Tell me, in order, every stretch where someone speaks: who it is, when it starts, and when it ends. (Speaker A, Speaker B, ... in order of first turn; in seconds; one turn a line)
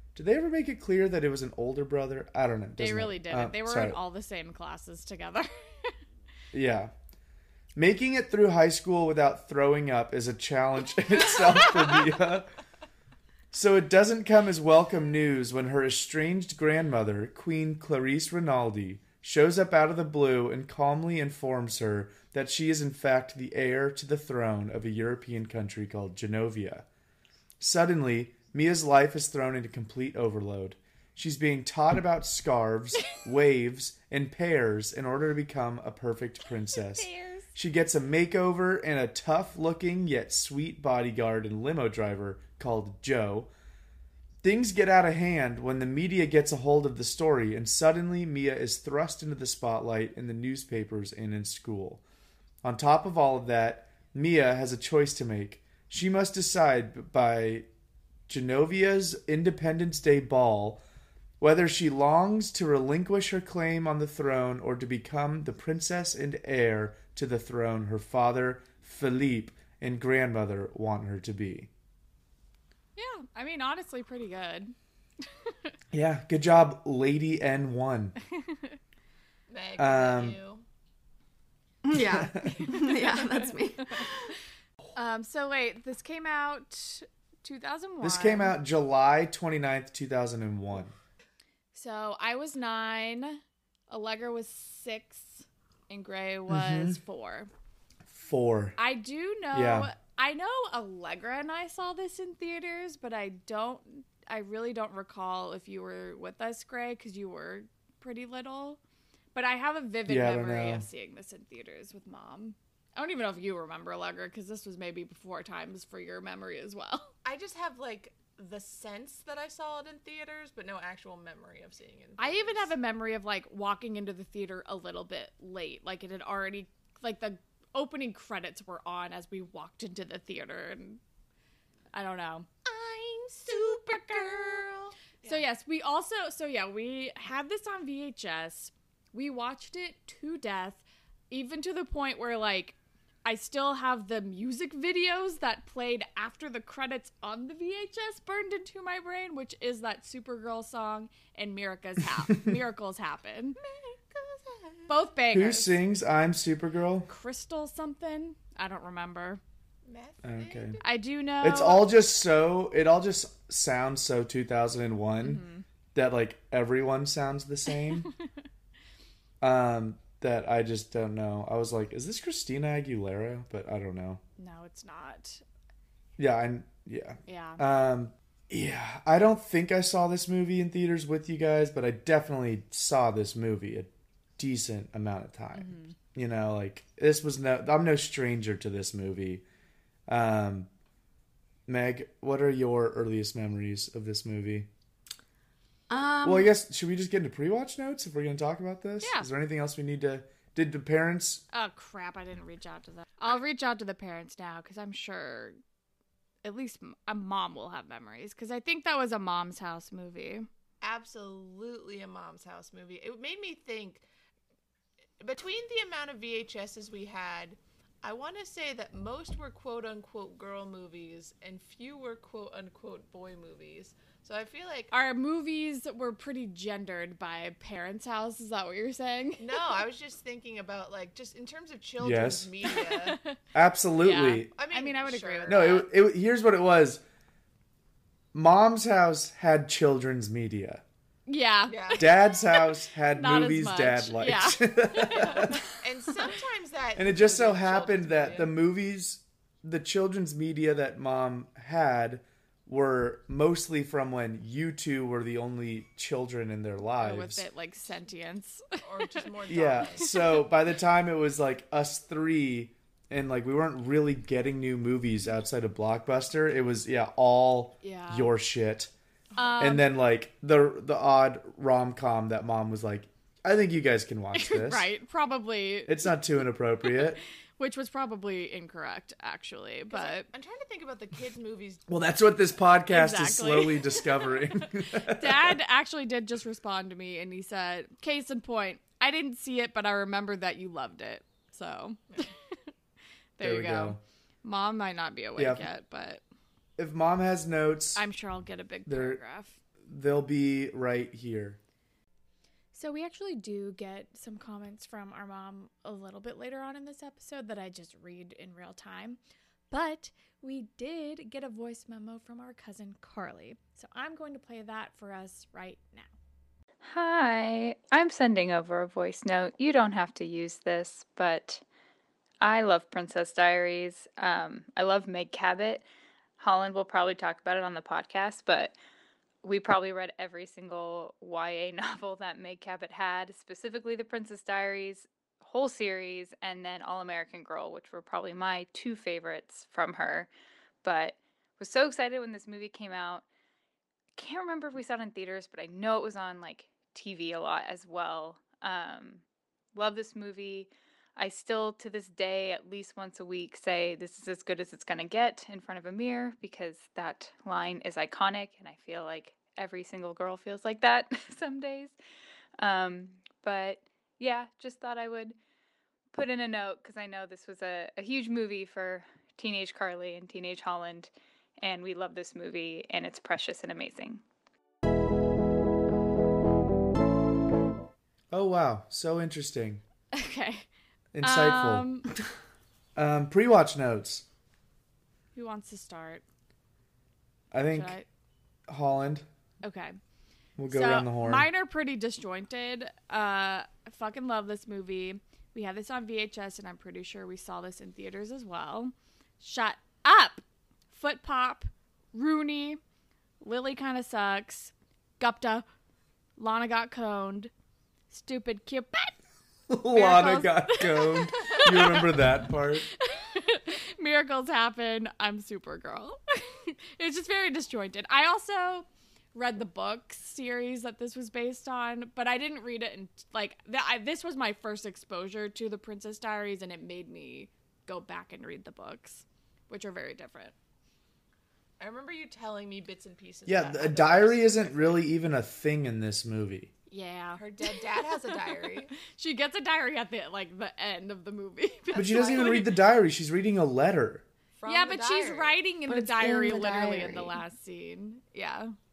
Speaker A: 0.1-4.0
Speaker B: 2.8-6.0
Speaker A: 6.5-6.9
Speaker A: 7.7-12.5
Speaker A: 13.5-26.9
Speaker A: 27.6-43.5
Speaker B: 36.7-37.5
Speaker A: 44.4-52.0
Speaker A: 52.6-57.7
Speaker A: 58.3-60.8
Speaker A: 61.4-71.7
Speaker B: 73.0-74.7
Speaker A: 75.9-78.1
Speaker B: 78.5-78.8
Speaker C: 79.5-80.6
Speaker A: 79.8-80.4
Speaker D: 81.8-84.2
Speaker A: 82.0-82.7
Speaker B: 84.9-88.6
Speaker A: 88.0-90.9
Speaker B: 91.7-97.5
Speaker A: 96.5-97.0
Speaker A: 98.1-98.8
Speaker B: 98.8-108.8
Speaker A: 99.5-99.9
Speaker B: 109.3-117.1
Speaker A: 110.1-110.8
Speaker C: 117.2-122.7
Speaker B: 122.2-131.0
Speaker B: 131.9-132.5
Speaker C: 132.6-135.4
Speaker B: 133.5-134.6
Speaker B: 135.2-153.6
Speaker C: 153.6-154.9
Speaker B: 154.9-155.8
Speaker A: 155.3-157.1
Speaker B: 157.1-159.4
Speaker C: 159.8-160.9
Speaker A: 160.2-160.8
Speaker B: 160.8-161.8
Speaker A: 161.4-165.4
Speaker B: 165.2-165.6
Speaker A: 165.9-168.1
Speaker A: 169.4-174.2
Speaker B: 174.4-175.4
Speaker A: 176.2-189.4
Speaker B: 177.3-177.6
Speaker B: 185.5-185.9
Speaker A: 190.1-190.7
Speaker A: 191.7-194.7
Speaker D: 195.9-196.5
Speaker A: 196.2-201.4
Speaker B: 199.0-199.3
Speaker B: 201.5-205.6
Speaker B: 206.4-210.5
Speaker C: 210.8-214.0
Speaker C: 215.2-224.9
Speaker B: 224.9-229.6
Speaker C: 229.4-233.2
Speaker A: 232.0-232.5
Speaker B: 232.7-233.3
Speaker A: 233.5-234.5
Speaker B: 234.0-235.8
Speaker C: 234.6-235.8
Speaker A: 235.5-237.0
Speaker A: 238.3-240.8
Speaker B: 241.3-245.6
Speaker C: 241.7-242.1
Speaker A: 241.9-245.6
Speaker C: 245.8-248.5
Speaker A: 246.9-257.4
Speaker B: 257.0-259.2
Speaker C: 258.8-260.4
Speaker A: 259.5-268.9
Speaker B: 267.8-268.3
Speaker B: 269.4-269.9
Speaker A: 269.6-274.9
Speaker B: 274.3-276.1
Speaker A: 275.9-277.2
Speaker B: 277.6-280.3
Speaker C: 279.9-282.0
Speaker A: 281.9-285.6
Speaker B: 282.9-284.1
Speaker B: 284.9-292.3
Speaker B: 293.4-296.2
Speaker A: 293.4-294.0
Speaker A: 295.4-295.6
Speaker A: 296.8-298.0
Speaker B: 297.9-299.6
Speaker A: 298.9-299.2
Speaker A: 299.9-301.6
Speaker B: 302.7-309.2
Speaker B: 309.7-316.1
Speaker E: 316.8-321.6
Speaker E: 322.4-325.8
Speaker E: 326.4-328.7
Speaker E: 329.4-340.3
Speaker E: 340.8-343.2
Speaker E: 344.1-349.2
Speaker E: 349.7-361.9
Speaker E: 362.6-365.4
Speaker E: 366.1-374.2
Speaker A: 378.3-379.8
Speaker B: 380.1-380.7
Speaker A: 381.1-381.9
Speaker B: 381.2-382.1
Speaker A: 382.9-384.2
Speaker B: 385.3-386.2
Speaker A: 387.5-387.9
Speaker B: 387.7-388.1
Speaker A: 388.7-389.2
Speaker B: 389.6-390.0
Speaker A: 390.6-391.5
Speaker B: 390.7-402.8
Speaker B: 403.4-405.6
Speaker B: 406.4-407.5
Speaker B: 408.1-409.1
Speaker A: 409.7-412.9
Speaker B: 409.9-412.1
Speaker B: 412.9-430.5
Speaker C: 431.8-435.1
Speaker A: 433.5-436.7
Speaker B: 436.9-438.3
Speaker C: 437.4-438.9
Speaker B: 439.0-442.7
Speaker C: 441.9-442.7
Speaker A: 441.9-444.2
Speaker C: 444.6-445.6
Speaker B: 444.6-448.7
Speaker D: 445.9-447.4